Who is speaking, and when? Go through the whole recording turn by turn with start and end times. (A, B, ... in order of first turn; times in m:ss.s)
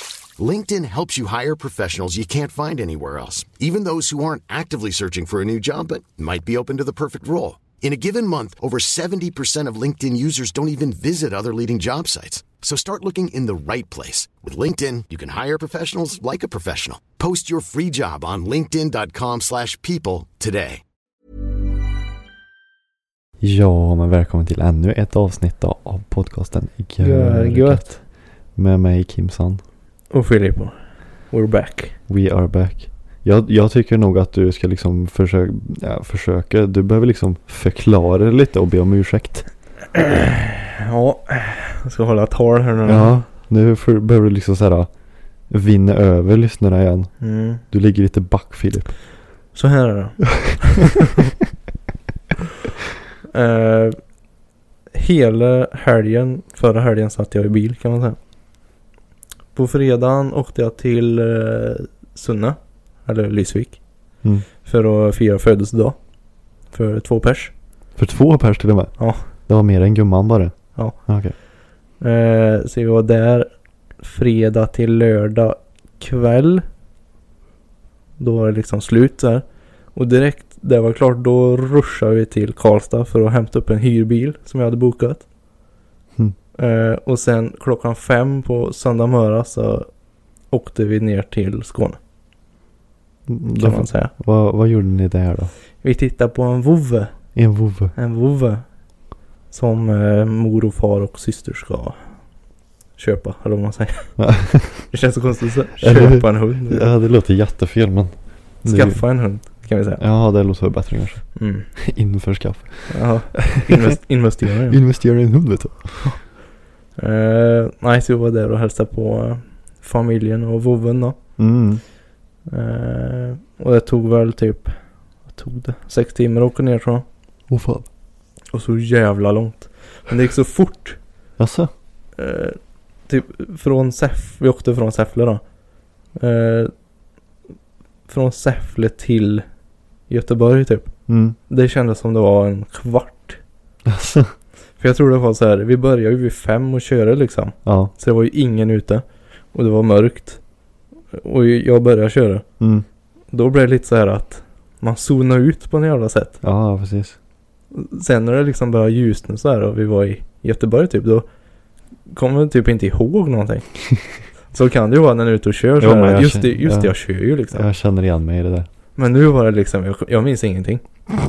0:00.4-0:20.8 A
0:23.4-0:28.0 B
0:27.0-0:27.8 C
0:28.6-0:29.6 B
0:30.1-0:30.7 C
0:31.3-0:31.9 C
0:32.1-0:39.4 B
0:39.9-0:43.2 C
0:42.8-0:44.9 B
0:45.5-0:48.9 B
0:47.2-0:47.6 C
0:49.5-0:51.0 C
0:53.3-0:54.0 C
0:54.9-0:58.2 C
0:59.5-1:03.8 C
1:04.6-1:06.0 C
1:06.7-1:07.5 C
1:08.0-1:11.3 B
1:09.0-1:09.2 C
1:12.0-1:13.5 C
1:14.0-1:16.6 C
1:18.2-1:19.4 C
1:19.9-1:25.2 C
1:26.6-1:29.9 C
1:30.5-1:32.0 C
1:33.3-1:35.5 B
1:33.6-1:34.1 C
1:35.8-1:37.1 C
1:37.3-1:37.9 B
1:37.9-1:38.6 C
1:39.5-1:42.0 C
1:43.0-1:44.2 C
1:44.2-1:44.9 B
1:44.7-1:46.9 C
1:45.8-1:48.1 B
1:48.6-1:49.0 B
1:48.6-1:50.0 C
1:50.0-1:54.0 B
1:51.4-1:51.6 C
1:52.9-1:54.8 C
1:54.7-1:56.1 B
1:57.0-2:01.2 C
2:01.4-2:01.8 B
2:02.5-2:04.7 C
2:05.3-2:07.0 C
2:07.5-2:07.8 B
2:08.5-2:11.0 C
2:11.4-2:11.7 B
2:12.2-2:15.4 C
2:16.2-2:16.7 C
2:18.1-2:19.4 C
2:20.1-2:20.9 C
2:21.1-2:21.4 B
2:21.5-2:23.4 C
2:23.8-2:24.3 B
2:24.8-2:30.4 C
2:27.6-2:27.9 B
2:31.1-2:32.4 C
2:32.6-2:32.8 B
2:33.3-2:36.4 C
2:36.4-2:37.2 B
2:37.7-2:41.2 C
2:42.1-2:43.7 C
2:44.5-2:47.6 C
2:45.8-2:47.0 B
2:47.5-2:48.7 B
2:49.0-2:50.8 C